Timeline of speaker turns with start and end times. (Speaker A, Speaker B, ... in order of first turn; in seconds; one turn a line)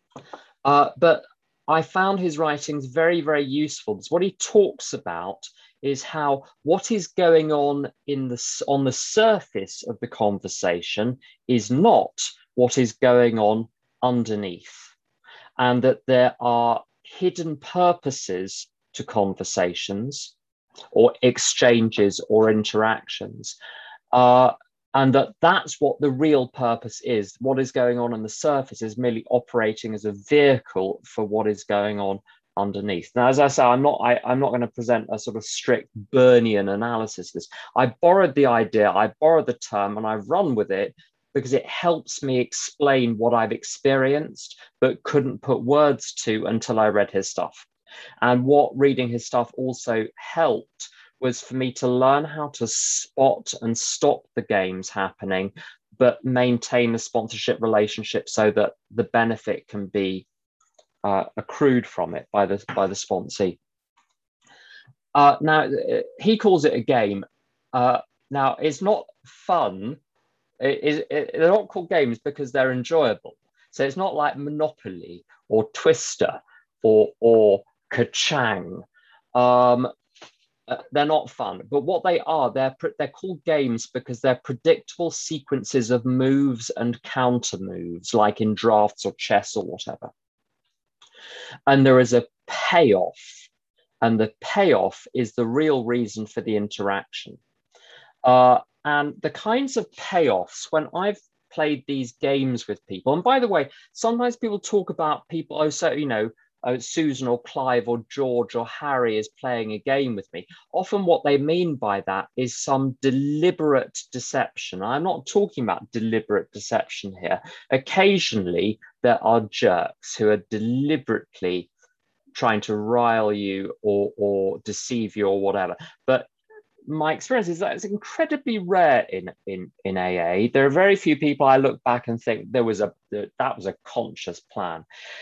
Speaker A: 0.6-14.9
Speaker A: 15.6-20.3
Speaker A: 20.9-23.6
Speaker A: 24.1-47.7
Speaker A: 48.2-60.2
Speaker A: 61.0-63.6
Speaker A: 65.1-70.0
Speaker A: 70.6-79.9
Speaker A: 80.7-90.1
Speaker A: 91.7-93.3
Speaker A: 94.0-97.4
Speaker A: 98.2-121.7
Speaker A: 122.3-126.3
Speaker A: 126.8-134.8